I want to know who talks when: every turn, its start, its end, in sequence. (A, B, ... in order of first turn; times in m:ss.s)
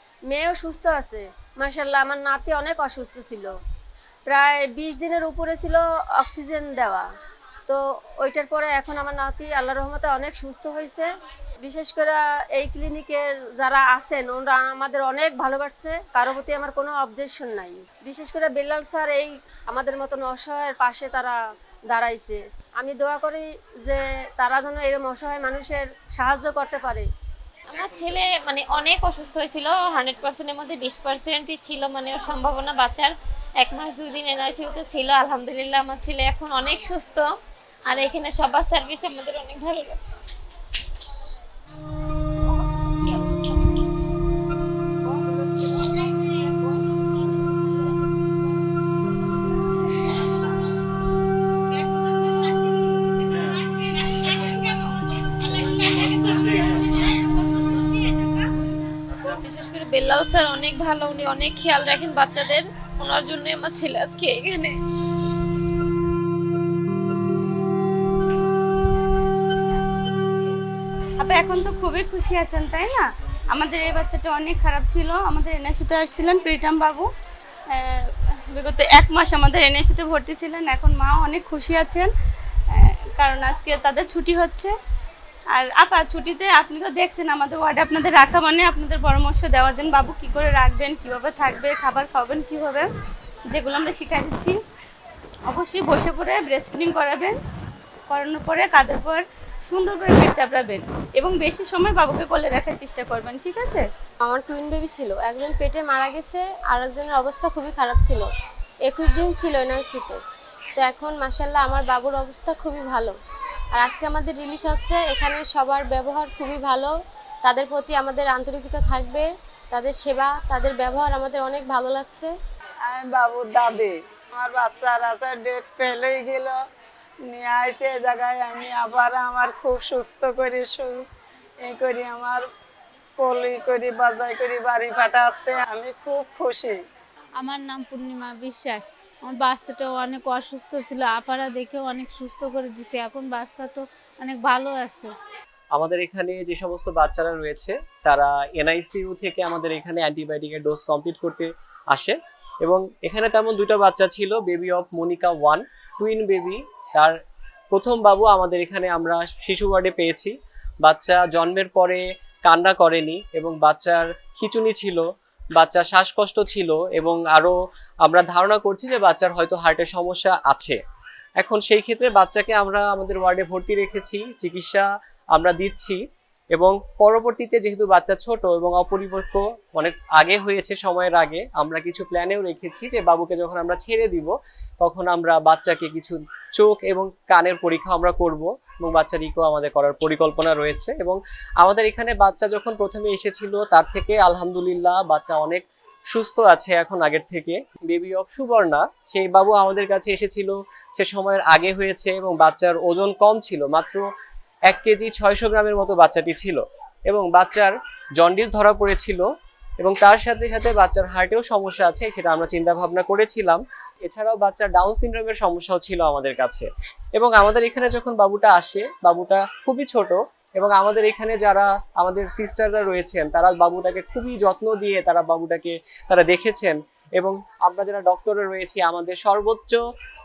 0:00.3-0:03.5 A
0:04.2-0:07.1 A
0:07.7-0:11.1 A
0:11.6-0:21.4 A
0:21.9-0:27.1 A
0:27.7-0:37.3 B
0:37.8-0:40.0 B
0:55.5-0:56.9 C
0:57.6-0:58.5 C
0:59.2-1:04.8 B
1:11.2-1:17.1 C
1:17.7-1:22.1 C
1:22.7-1:24.7 C
1:25.5-1:32.9 C
1:33.5-1:34.6 C
1:35.5-1:37.4 C
1:38.1-1:43.8 C
1:44.2-1:48.3 D
1:48.9-1:50.2 D
1:50.8-1:53.1 D
1:53.8-1:56.9 D
1:57.4-2:02.3 D
2:02.8-2:06.6 E
2:07.2-2:11.0 E
2:11.6-2:12.4 E
2:13.2-2:16.8 E
2:17.4-2:25.1 F
2:25.7-2:37.1 G
2:37.7-2:45.0 G
2:45.6-2:50.8 G
2:51.4-2:56.0 G
2:56.5-3:24.1 G
3:24.7-3:29.3 G
3:29.8-3:49.8 G